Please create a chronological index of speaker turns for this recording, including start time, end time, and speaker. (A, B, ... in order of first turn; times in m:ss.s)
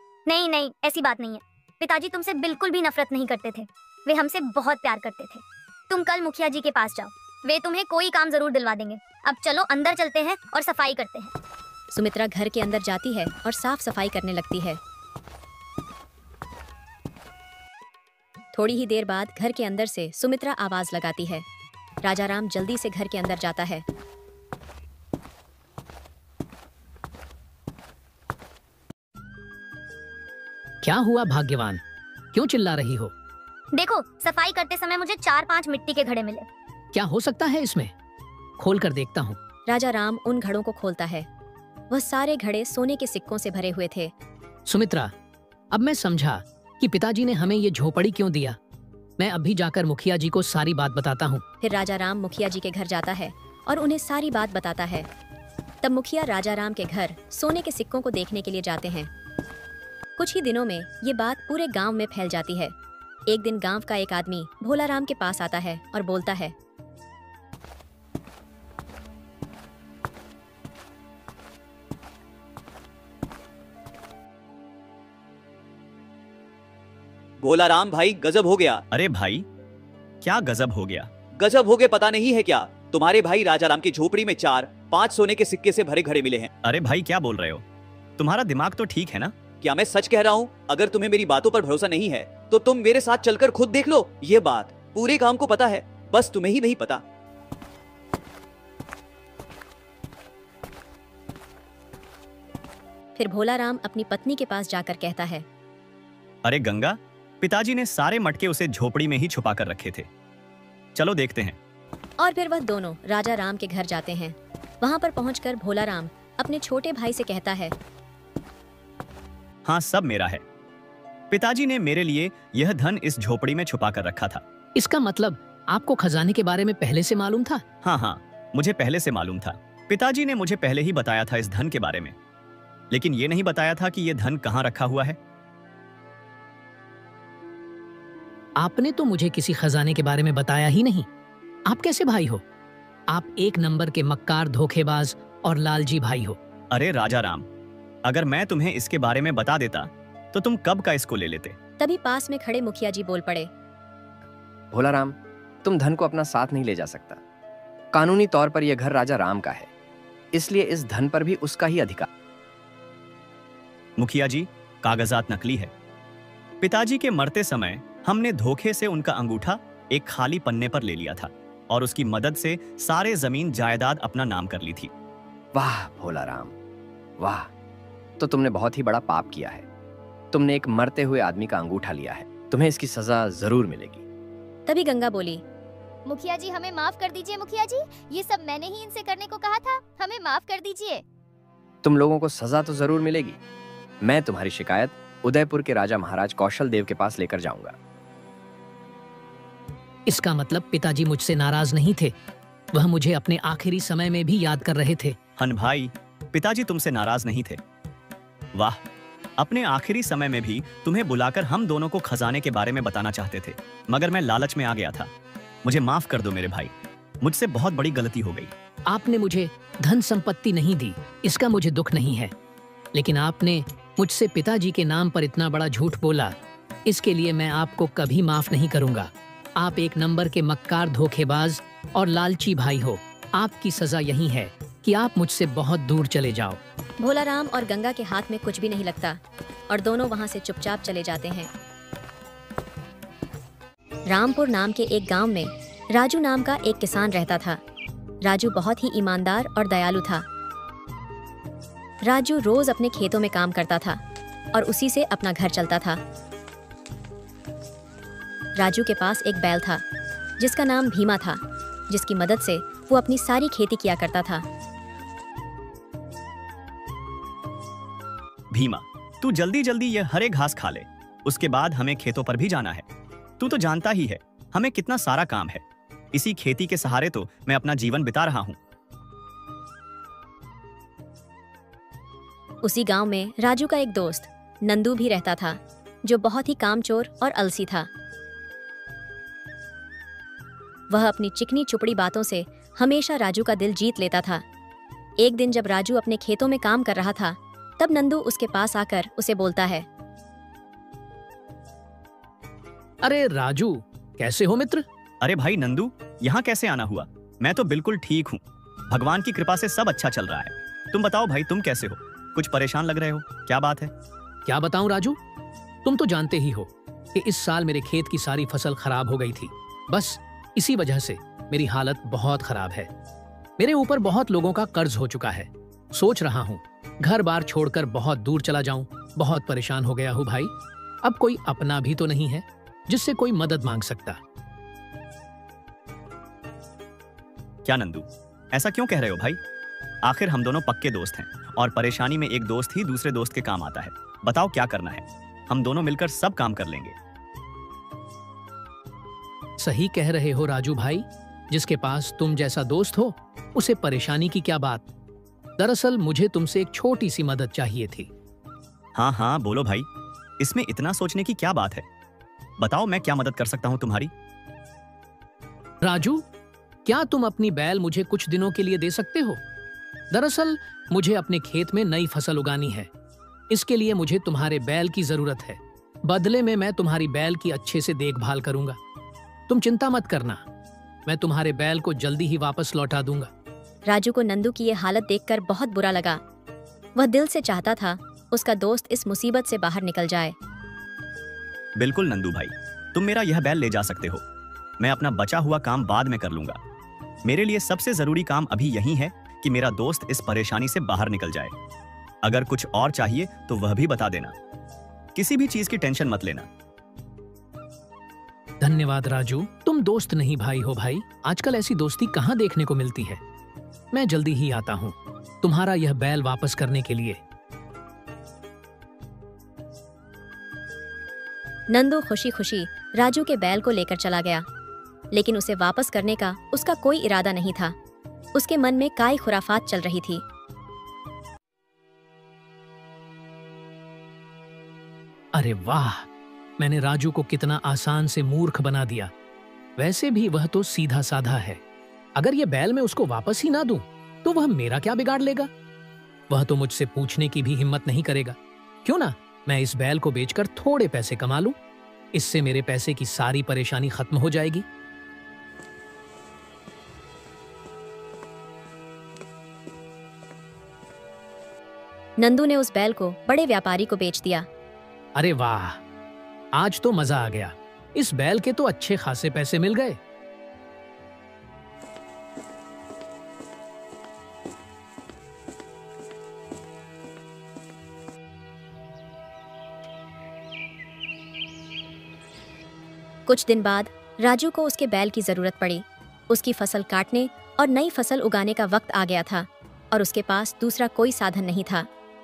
0:00.3-0:11.3 A
0:11.9-0:14.8 B
0:18.5-0:21.4 B
0:22.0-0:23.8 B
0:30.8-0:31.8 C
0:32.3-0:33.1 C
0:33.7-0:36.5 A
0:36.9-0:37.9 C
0:38.6-0:39.4 C
0:39.7-0:41.3 B
0:41.9-0:44.1 B
0:44.7-0:45.1 C
0:45.7-0:48.6 C
0:49.2-0:51.4 C
0:51.6-0:55.1 B
0:55.8-0:59.1 B
1:00.2-1:02.7 B
1:03.3-1:06.5 B
1:17.4-1:18.8 D
1:18.9-1:19.4 E
1:20.2-1:21.1 E
1:21.4-1:26.5 D
1:26.6-1:27.6 E
1:28.2-1:29.3 E
1:29.6-1:37.0 D
1:43.2-1:45.4 B
1:46.4-1:50.1 E
1:50.9-1:51.6 E
1:52.2-1:57.7 B
1:59.6-2:00.4 E
2:01.3-2:04.4 E
2:04.8-2:07.6 C
2:07.8-2:12.1 E
2:12.9-2:15.2 E
2:18.6-2:21.1 C
2:21.7-2:22.4 C
2:23.1-2:26.4 C
2:26.7-2:27.4 E
2:28.0-2:31.6 E
2:31.8-2:33.5 B
2:34.7-2:37.2 F
2:37.9-2:39.7 F
2:40.3-2:42.1 F
2:44.0-2:45.7 E
2:46.6-2:54.9 E
2:55.5-2:56.5 F
2:57.2-2:57.5 F
2:58.2-2:59.6 F
3:00.3-3:04.0 F
3:04.7-3:05.4 B
3:06.0-3:11.0 G
3:11.8-3:13.4 F
3:14.0-3:17.7 F
3:20.1-3:22.1 C
3:22.7-3:25.2 C
3:25.4-3:27.6 E
3:29.4-3:35.1 E
3:35.6-3:38.5 E
3:38.9-3:42.3 C
3:42.9-3:46.3 C
3:46.8-3:56.6 C
3:57.0-4:01.5 B
4:04.0-4:07.6 B
4:08.2-4:10.2 B
4:12.0-4:14.0 B
4:14.5-4:16.0 B
4:18.6-4:19.8 B
4:20.4-4:24.4 B
4:28.5-4:32.8 E
4:33.4-4:38.6 E
4:42.6-4:47.9 B
4:50.9-4:54.4 B
4:55.2-4:59.8 B
5:03.0-5:04.8 C
5:05.2-5:13.9 E
5:14.4-5:15.2 C
5:15.8-5:22.9 C
5:23.6-5:30.5 C
5:31.0-5:34.2 C
5:37.6-5:39.4 E
5:40.0-5:46.9 E
5:49.6-5:54.9 C
5:55.6-5:58.1 C
5:59.0-5:59.9 E
6:00.4-6:01.8 E
6:02.6-6:04.1 E
6:05.8-6:06.2 C
6:06.8-6:09.4 C
6:10.1-6:12.9 C
6:13.5-6:18.8 C
6:19.5-6:20.4 C
6:21.0-6:23.3 C
6:23.8-6:26.2 B
6:27.0-6:30.3 B
6:31.8-6:34.2 E
6:34.8-6:36.6 E
6:37.2-6:41.5 E
6:42.2-6:44.3 E
6:45.1-6:46.5 E
6:48.6-6:53.2 C
6:53.9-6:57.2 C
7:01.7-7:04.4 B
7:05.1-7:07.7 B
7:08.3-7:10.2 B
7:15.3-7:16.1 C
7:16.6-7:19.1 C
7:19.8-7:21.6 C
7:22.2-7:25.5 C
7:26.3-7:31.6 C
7:32.1-7:34.6 C
7:42.2-7:44.4 B
7:45.1-7:45.8 C
7:46.6-7:50.0 C
8:03.3-8:11.9 B